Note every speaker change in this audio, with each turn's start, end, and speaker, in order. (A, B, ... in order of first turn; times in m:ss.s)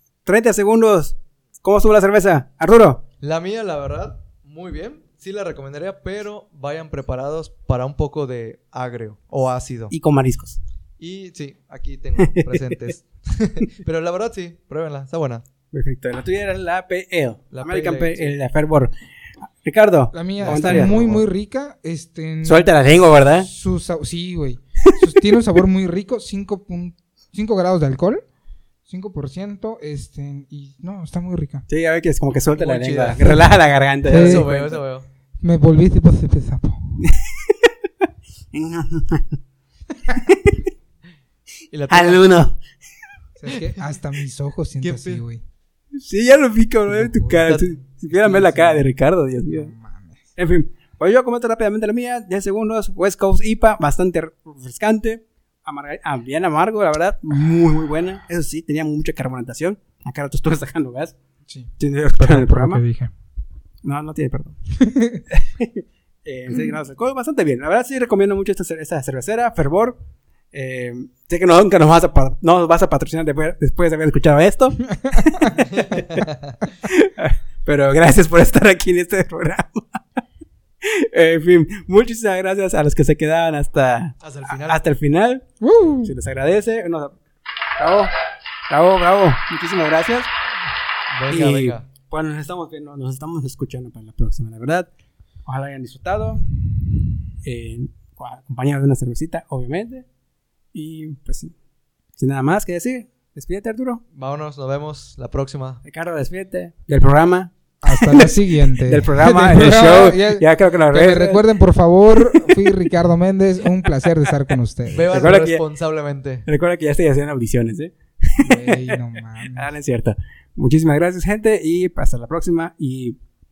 0:00.2-0:03.0 A
0:03.2-0:09.9 B
0:09.9-0:10.6 A
0:11.0-0:15.4 B
0:12.2-0:12.9 A
0:15.7-0:18.9 A
0:17.5-0:18.3 B
0:19.6-0:21.0 A
0:20.1-0:22.7 C
0:20.4-0:21.2 B
0:22.4-0:23.5 A
0:23.4-0:28.2 C
0:28.9-0:31.7 C
0:31.7-0:34.8 A
0:32.5-0:33.4 B
0:34.1-0:34.5 C
0:34.1-0:35.1 B
0:35.4-0:37.0 C
0:37.0-0:37.7 A
0:38.5-0:39.4 A
0:40.3-0:40.6 A
0:41.7-0:42.2 B
0:41.9-0:42.6 A
0:43.4-0:45.4 C
0:44.8-0:45.2 B
0:45.9-0:49.7 A
0:47.0-0:47.4 C
0:47.4-0:48.8 B
0:49.5-0:50.2 C
0:50.4-1:01.2 A
1:01.5-1:03.1 C
1:01.8-1:02.8 A
1:03.8-1:04.6 A
1:04.8-1:05.2 C
1:05.3-1:10.0 A
1:10.5-1:16.3 A
1:14.9-1:15.6 C
1:15.7-1:16.6 B
1:16.8-1:20.0 A
1:20.8-1:25.5 A
1:24.2-1:24.8 B
1:25.6-1:26.1 C
1:26.0-1:27.2 A
1:27.8-1:28.1 A
1:28.7-1:30.3 A
1:31.1-1:31.8 B
1:31.3-1:34.9 A
1:35.5-1:36.4 A
1:37.4-1:40.1 A
1:40.7-1:41.5 A
1:42.2-1:44.0 A
1:44.1-1:45.8 B
1:45.8-1:51.4 A
1:47.8-1:55.3 C
1:52.2-1:52.5 A
1:54.0-1:54.5 A
1:54.9-1:56.5 B
1:55.1-1:55.6 A
1:56.5-1:59.0 A
1:58.4-1:59.7 C
1:59.5-2:03.2 A